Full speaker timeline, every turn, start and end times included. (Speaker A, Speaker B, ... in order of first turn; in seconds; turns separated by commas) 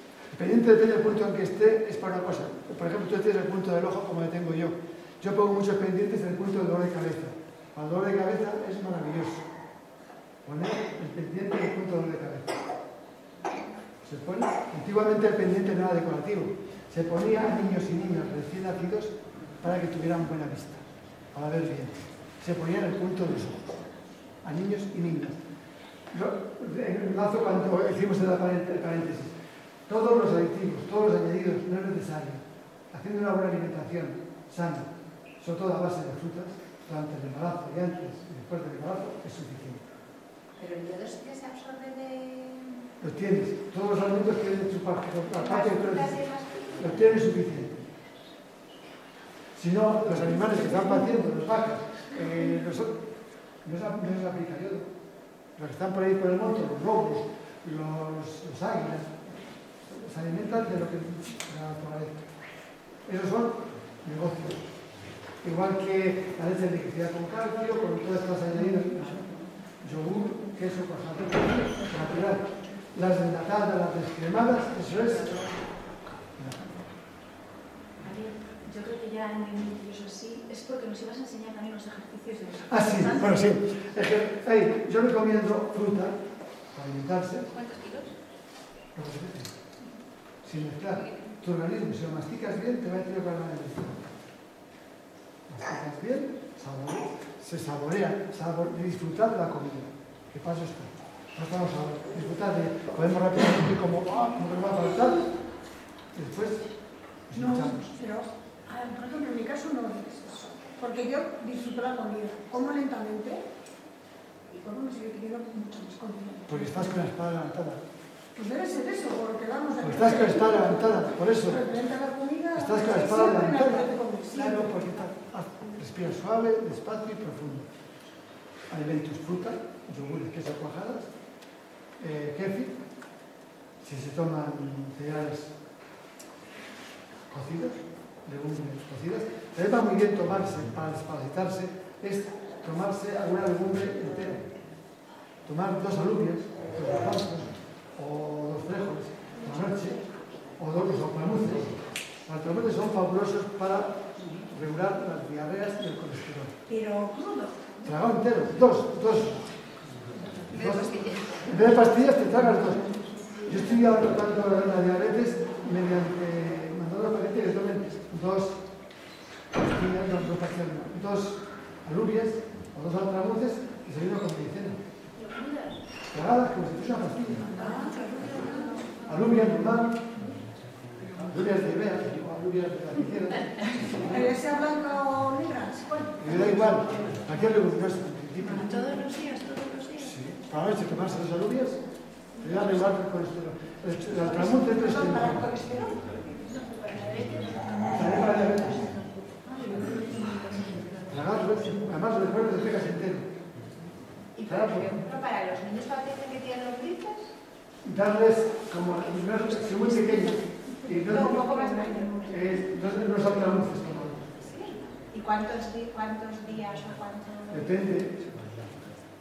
Speaker A: 0.3-9.5, Speaker A: 10.4-12.6, Speaker A: 14.0-23.9, Speaker A: 24.4-25.4, Speaker A: 26.1-29.3, Speaker A: 29.9-34.9, Speaker A: 35.4-39.8, Speaker B: 40.6-42.8, Speaker A: 43.0-47.9, Speaker B: 45.5-46.8, Speaker A: 49.6-53.0, Speaker A: 53.6-54.9, Speaker A: 55.6-62.3, Speaker A: 63.0-64.6, Speaker A: 65.4-75.5, Speaker A: 76.3-76.9, Speaker C: 78.0-82.7, Speaker A: 82.6-86.2, Speaker A: 86.7-87.7, Speaker B: 87.7-88.0, Speaker A: 89.0-89.5, Speaker A: 90.4-94.1, Speaker A: 95.5-105.3, Speaker A: 106.1-106.7, Speaker A: 107.3-107.9, Speaker D: 107.3-113.4, Speaker D: 114.5-116.8, Speaker A: 116.5-117.8, Speaker D: 118.3-124.7, Speaker A: 119.8-121.6, Speaker A: 122.5-127.7, Speaker A: 128.7-131.1, Speaker A: 132.0-132.8, Speaker A: 133.8-135.6, Speaker A: 137.3-144.5, Speaker A: 145.4-150.0, Speaker A: 150.6-156.5, Speaker B: 156.7-157.6, Speaker D: 156.8-157.4, Speaker A: 157.8-159.4, Speaker A: 160.5-168.6, Speaker B: 160.8-161.1, Speaker A: 169.6-174.8, Speaker A: 176.1-177.7, Speaker D: 177.5-178.9, Speaker A: 179.0-180.1, Speaker A: 181.1-184.3, Speaker D: 184.1-186.1, Speaker A: 186.2-189.1, Speaker C: 188.8-189.6, Speaker B: 189.1-189.8, Speaker A: 189.9-191.8, Speaker A: 192.4-195.7, Speaker D: 195.5-196.0, Speaker B: 195.6-197.4, Speaker A: 197.9-198.9, Speaker D: 200.0-200.3, Speaker C: 200.4-200.8, Speaker A: 201.0-203.4, Speaker B: 204.4-207.3, Speaker A: 204.4-205.0, Speaker A: 207.8-211.7, Speaker B: 211.1-212.3, Speaker A: 212.2-214.4, Speaker B: 214.4-217.5, Speaker A: 217.5-218.7